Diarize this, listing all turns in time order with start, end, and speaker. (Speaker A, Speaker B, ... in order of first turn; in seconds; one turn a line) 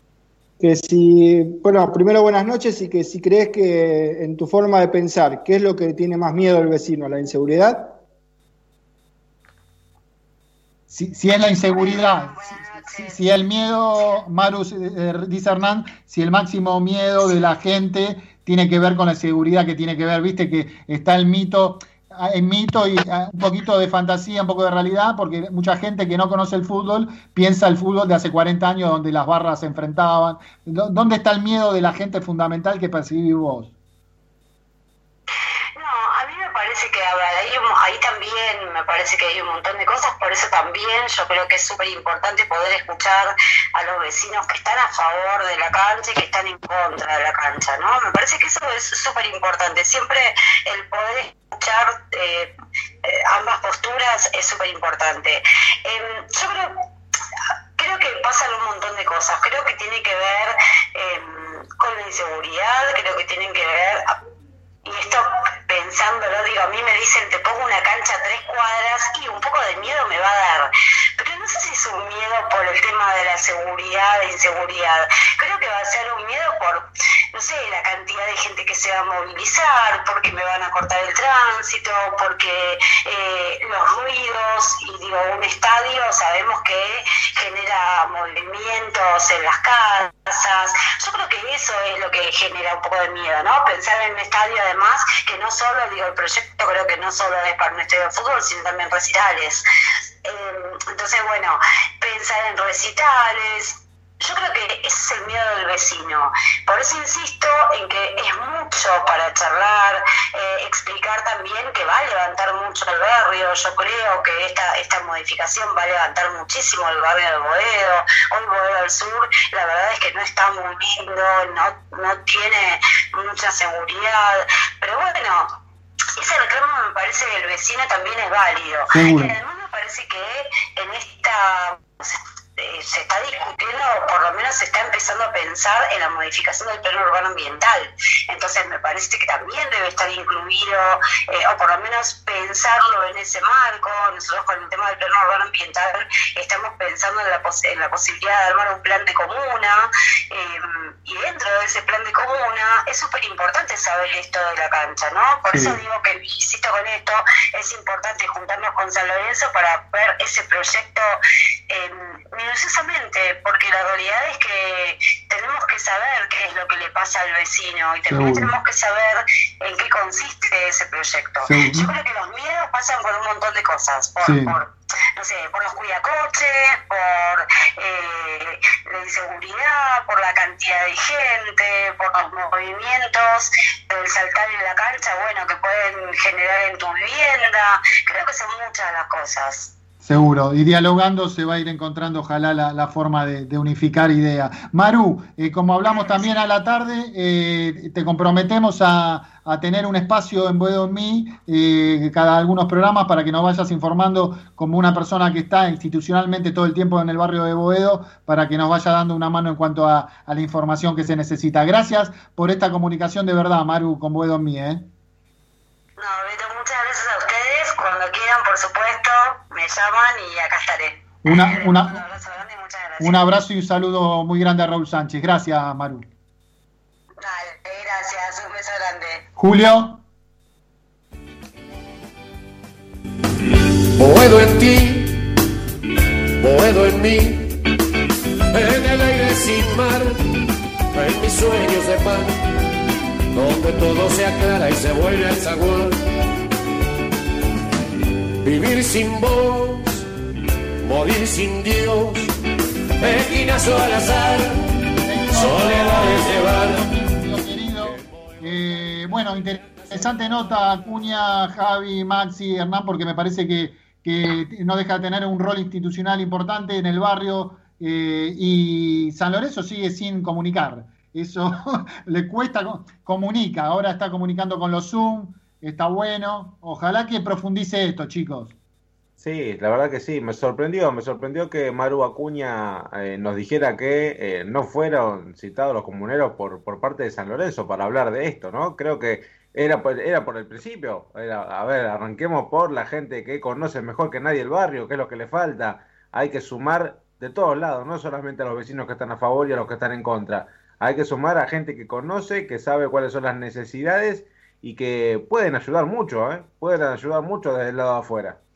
Speaker A: 0.6-8.0
Speaker B: 10.9-33.7
Speaker C: 11.7-13.3
Speaker C: 35.8-52.5
Speaker C: 53.0-56.7
Speaker C: 57.8-64.2
Speaker C: 64.8-99.6
Speaker C: 100.2-125.5
Speaker C: 126.2-161.1
Speaker B: 128.9-129.3
Speaker B: 155.5-155.8
Speaker C: 161.7-189.7
Speaker B: 168.1-168.5
Speaker B: 171.4-171.9
Speaker B: 174.2-174.6
Speaker B: 190.0-214.8
Speaker C: 195.9-196.5
Speaker C: 216.0-223.3
Speaker B: 221.2-222.0
Speaker B: 223.0-226.0
Speaker C: 227.2-229.2
Speaker B: 229.4-230.0
Speaker D: 233.9-235.3
Speaker D: 236.4-237.6
Speaker D: 238.5-240.2
Speaker D: 240.9-242.4
Speaker D: 243.3-246.1
Speaker D: 248.4-250.1
Speaker D: 250.8-252.3
Speaker D: 253.0-254.7
Speaker B: 255.0-278.5
Speaker D: 255.3-256.8
Speaker E: 279.2-308.4